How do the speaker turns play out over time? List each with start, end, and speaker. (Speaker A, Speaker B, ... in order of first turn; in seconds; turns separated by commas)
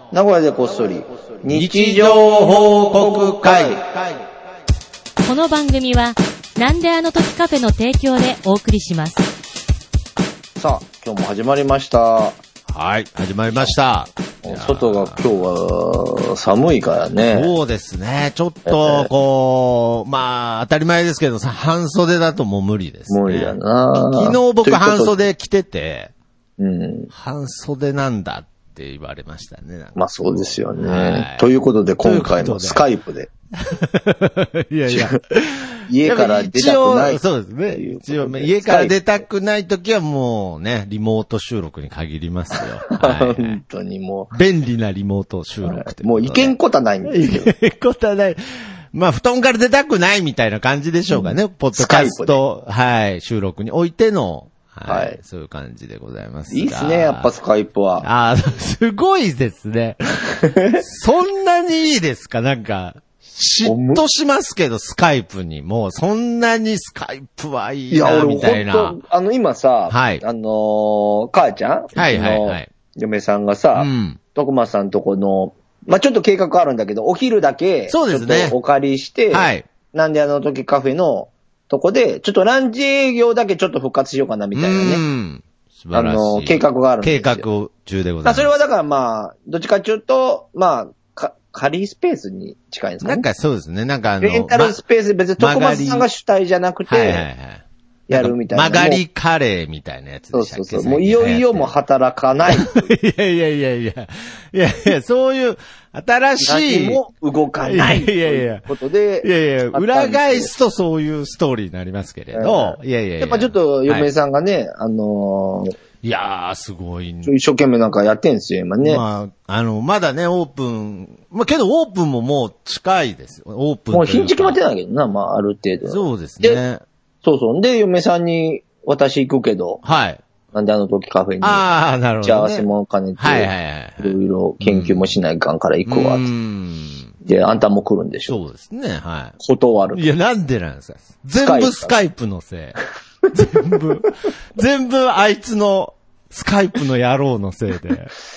Speaker A: 0.1-3.8, Speaker B: 1.5-4.2, Speaker C: 5.2-9.2, Speaker A: 10.6-12.4, Speaker B: 12.7-15.3, Speaker A: 14.4-17.5, Speaker B: 17.1-26.1, Speaker A: 18.6-19.1, Speaker A: 23.1-25.2, Speaker A: 26.6-27.1, Speaker B: 27.1-31.4, Speaker A: 29.9-33.3, Speaker B: 32.0-32.8, Speaker B: 33.6-43.6, Speaker A: 34.9-35.1, Speaker A: 35.9-39.0, Speaker A: 42.9-44.3, Speaker B: 44.3-48.4, Speaker A: 45.6-47.5, Speaker B: 48.9-57.3, Speaker A: 51.1-52.4, Speaker A: 54.9-55.2, Speaker A: 56.5-58.0, Speaker B: 58.0-60.0, Speaker A: 60.4-60.8, Speaker B: 60.8-69.0, Speaker A: 63.6-64.0, Speaker A: 67.9-85.0, Speaker B: 69.9-70.2, Speaker B: 71.9-72.7, Speaker B: 73.7-74.2, Speaker B: 77.9-78.5, Speaker B: 79.3-79.7, Speaker B: 84.5-88.5, Speaker A: 85.9-87.5, Speaker A: 88.2-93.2, Speaker B: 93.0-94.8, Speaker A: 94.2-97.3, Speaker B: 95.4-96.1, Speaker B: 96.9-101.7, Speaker A: 98.1-99.0, Speaker A: 100.3-102.9, Speaker B: 102.5-107.0, Speaker A: 106.4-110.5, Speaker B: 107.7-108.7, Speaker B: 109.2-114.1, Speaker A: 112.3-115.7, Speaker B: 116.0-117.3, Speaker A: 117.2-119.0, Speaker B: 118.8-124.6, Speaker A: 123.9-126.6, Speaker B: 125.9-126.8, Speaker A: 127.2-129.8, Speaker B: 129.8-130.2, Speaker A: 130.5-131.6, Speaker B: 131.4-132.7, Speaker A: 132.2-136.3, Speaker B: 133.2-135.1, Speaker B: 135.8-137.1, Speaker A: 137.2-138.4, Speaker B: 138.3-139.4, Speaker A: 139.4-140.1, Speaker B: 139.9-142.8, Speaker A: 141.3-141.9, Speaker B: 143.3-148.1